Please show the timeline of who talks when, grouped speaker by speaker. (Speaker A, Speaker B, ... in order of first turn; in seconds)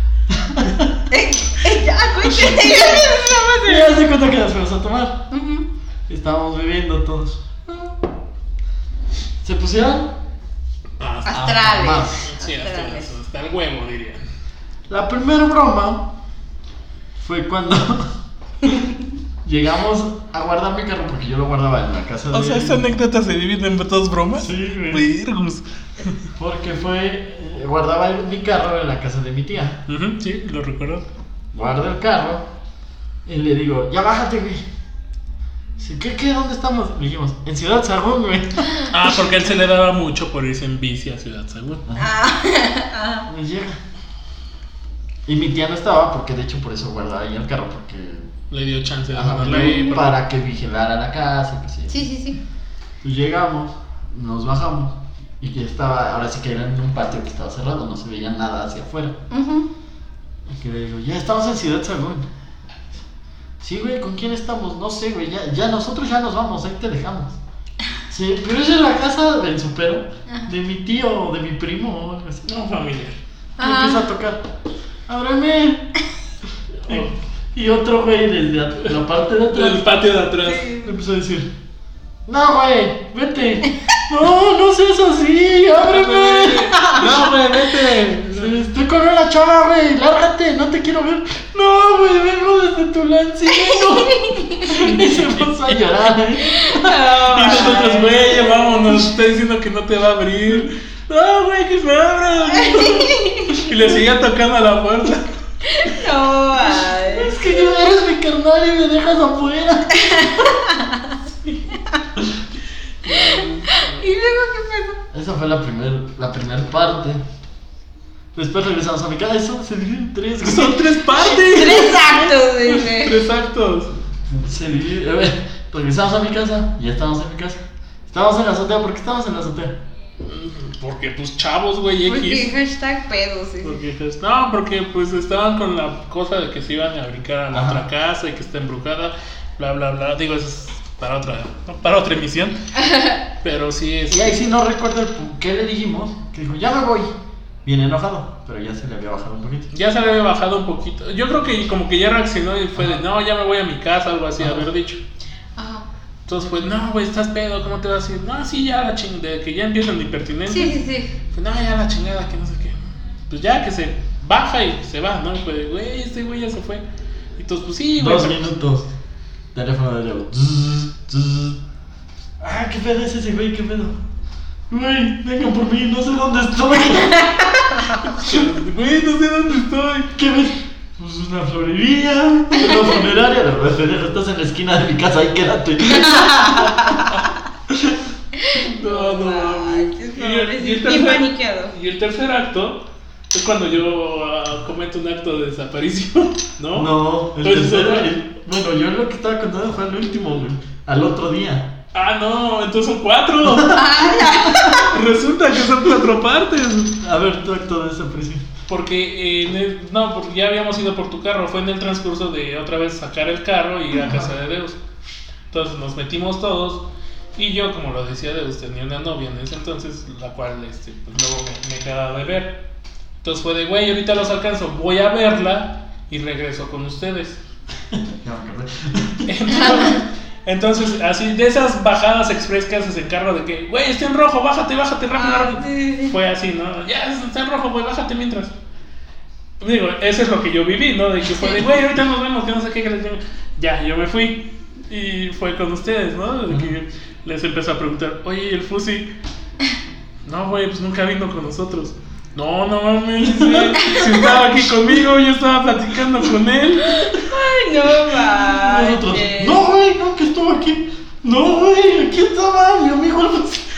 Speaker A: 0.3-1.0, 2.2-3.0, 3.6-5.2, 6.1-7.4, 9.4-10.1, 11.3-12.3, 14.9-16.1, 17.2-18.1, 19.4-22.9, 24.4-25.1, 26.4-29.8, 31.5-32.4, 33.2-34.6, 35.8-38.7, 43.3-43.8, 45.2-48.3, 49.1-52.0, 53.0-59.2, 60.5-62.3, 63.6-67.4, 68.1-72.4, 73.6-74.5, 75.1-75.9, 76.8-79.9, 80.8-81.5, 82.2-86.8, 88.2-97.8, 107.0-110.5, 115.1-117.2, 118.3-121.1, 124.3-129.8, 137.5-137.8, 144.1-147.1, 147.6-149.7, 154.4-154.7, 168.0-168.9, 169.5-171.6, 172.4-174.0, 174.7-177.3, 180.2-186.8, 187.7-188.0, 196.7-201.8, 203.4-204.5, 207.0-208.4, 227.9-229.9, 246.5-246.7, 253.2-253.9, 258.1-263.6
Speaker B: 1.1-4.0, 5.3-5.7, 11.2-13.1, 42.0-43.3, 51.9-52.4, 59.3-59.7, 70.3-70.5, 73.6-74.1, 80.4-80.9, 86.8-87.0, 93.5-94.8, 96.4-99.0, 102.5-103.7, 105.7-107.7, 109.9-111.2, 113.1-115.0, 121.2-123.2, 132.1-133.8, 142.8-143.2, 155.6-155.8, 160.5-161.2, 177.2-178.0, 182.6-182.8, 185.9-187.2, 188.3-191.7, 203.7-204.9, 235.1-236.1, 241.3-241.6, 253.8-254.3, 256.8-259.6
Speaker C: 11.0-11.5, 12.2-14.2, 22.3-26.1, 29.9-31.1, 38.9-41.8, 48.5-50.1, 72.4-73.2, 76.9-77.1, 79.5-80.7, 85.8-88.6, 94.8-95.5, 97.3-105.3, 113.0-114.0, 120.4-123.9, 130.2-132.5, 133.6-142.6, 143.4-144.4, 149.7-155.0, 156.3-160.8, 161.3-166.8, 167.4-168.5, 178.0-180.1, 188.6-198.1, 201.9-203.8, 204.7-207.0, 208.7-214.8, 215.5-216.8, 217.3-222.6, 223.2-227.4, 229.2-238.5, 239.6-249.1, 250.2-257.1